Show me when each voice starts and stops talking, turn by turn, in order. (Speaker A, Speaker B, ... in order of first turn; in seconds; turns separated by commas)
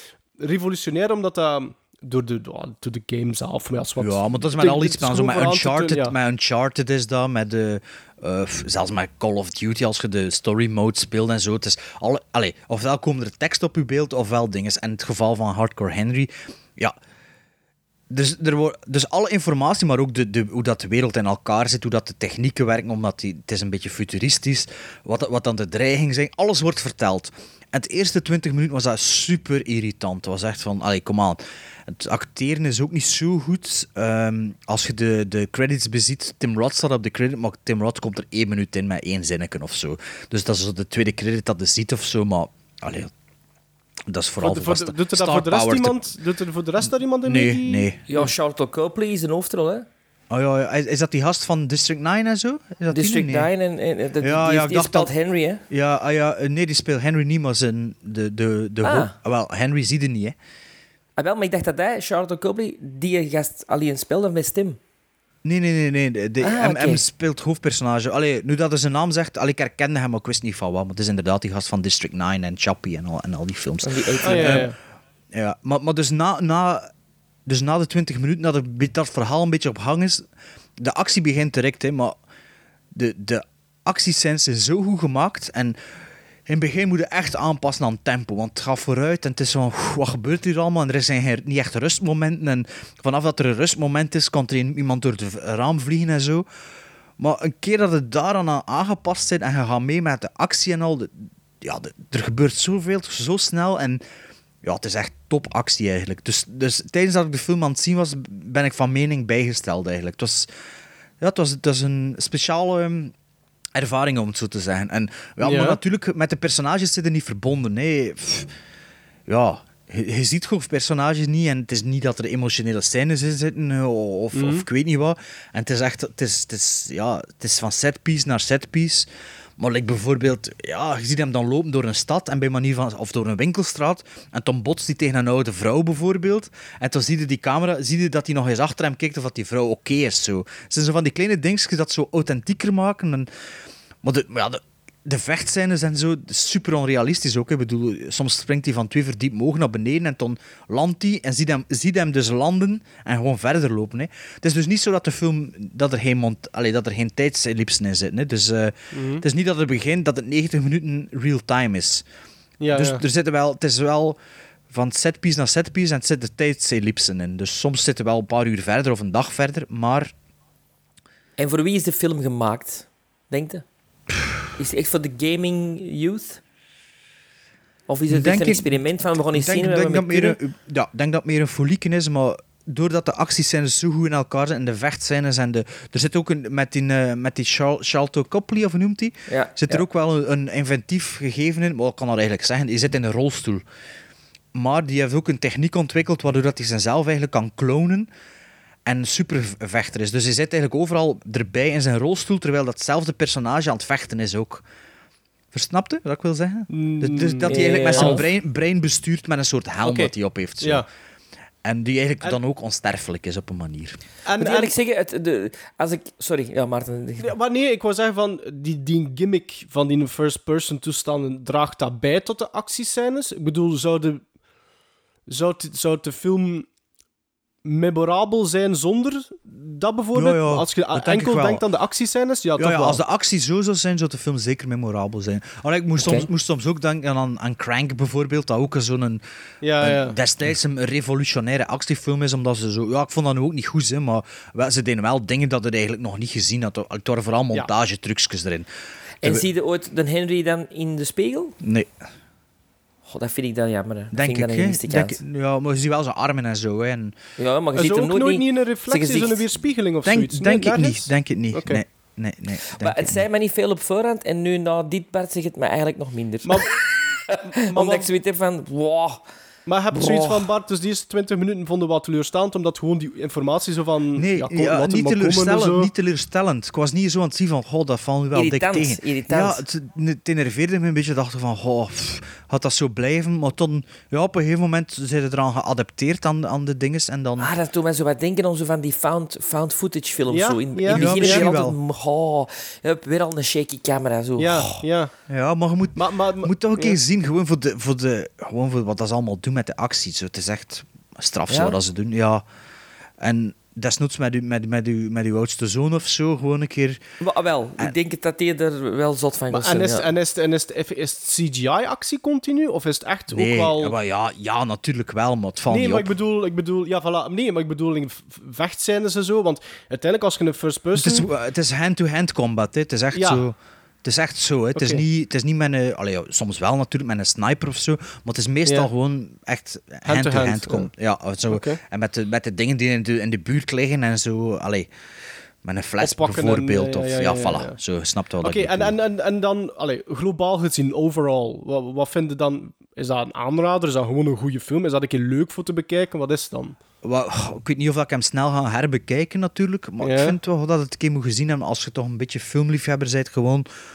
Speaker A: 0.4-6.1, Speaker B: 4.0-17.0, Speaker B: 18.1-43.1, Speaker B: 44.1-46.0, Speaker A: 44.4-47.9, Speaker B: 46.8-48.2, Speaker C: 48.1-49.9, Speaker B: 50.3-53.5, Speaker C: 52.9-55.6, Speaker B: 54.2-55.1, Speaker B: 55.7-60.4, Speaker C: 58.8-59.1, Speaker C: 61.2-64.8, Speaker B: 65.4-74.7, Speaker C: 66.4-67.0, Speaker C: 73.8-74.7, Speaker A: 74.2-74.8, Speaker B: 75.3-76.9, Speaker B: 77.5-80.2, Speaker B: 80.8-82.2, Speaker B: 82.9-85.8, Speaker B: 86.5-96.5, Speaker B: 97.2-104.0, Speaker B: 104.6-110.5, Speaker B: 111.2-113.1, Speaker B: 113.8-118.5, Speaker A: 115.4-115.8, Speaker B: 119.3-129.1, Speaker A: 124.3-124.7, Speaker B: 129.6-143.3, Speaker B: 144.0-162.1, Speaker A: 158.9-159.2, Speaker A: 162.6-163.0, Speaker B: 162.7-164.2, Speaker B: 164.7-170.1, Speaker C: 171.4-173.7, Speaker C: 174.6-176.4, Speaker C: 177.9-180.4, Speaker B: 178.1-178.8, Speaker B: 179.3-193.6, Speaker C: 189.3-189.8, Speaker B: 194.6-198.1, Speaker B: 198.8-204.6, Speaker B: 205.5-210.8, Speaker A: 206.7-208.2, Speaker C: 207.5-208.2, Speaker A: 209.8-210.9, Speaker B: 211.6-214.0, Speaker A: 214.3-214.8, Speaker C: 214.4-217.3, Speaker A: 217.2-224.2, Speaker A: 225.3-226.7, Speaker A: 227.7-233.0, Speaker B: 230.1-231.6, Speaker B: 232.6-239.2, Speaker A: 239.6-240.2, Speaker B: 239.8-248.7, Speaker C: 249.2-251.6, Speaker B: 251.6-251.9, Speaker C: 253.1-255.2, Speaker B: 254.1-257.2, Speaker C: 257.4-259.4, Speaker A: 257.8-261.8, Speaker B: 260.1-263.2, Speaker C: 262.7-266.6, Speaker A: 266.4-266.7, Speaker C: 267.3-269.2, Speaker A: 267.3-268.1, Speaker A: 269.7-275.9, Speaker C: 269.9-270.5, Speaker B: 274.2-287.5, Speaker C: 278.3-279.6, Speaker C: 287.4-294.8, Speaker A: 290.3-291.4, Speaker B: 290.9-291.8, Speaker A: 294.4-295.1, Speaker B: 295.3-302.4, Speaker A: 296.0-297.0, Speaker C: 301.5-301.8, Speaker B: 303.2-307.0, Speaker C: 307.2-310.1, Speaker A: 309.5-313.9, Speaker B: 313.3-316.1, Speaker A: 315.7-321.3, Speaker B: 320.9-334.9, Speaker A: 323.1-323.4, Speaker A: 324.8-325.0, Speaker A: 330.0-330.9, Speaker A: 331.5-331.8, Speaker B: 335.6-339.0, Speaker A: 336.0-337.8, Speaker A: 338.4-346.8, Speaker B: 347.0-353.7, Speaker A: 350.0-350.4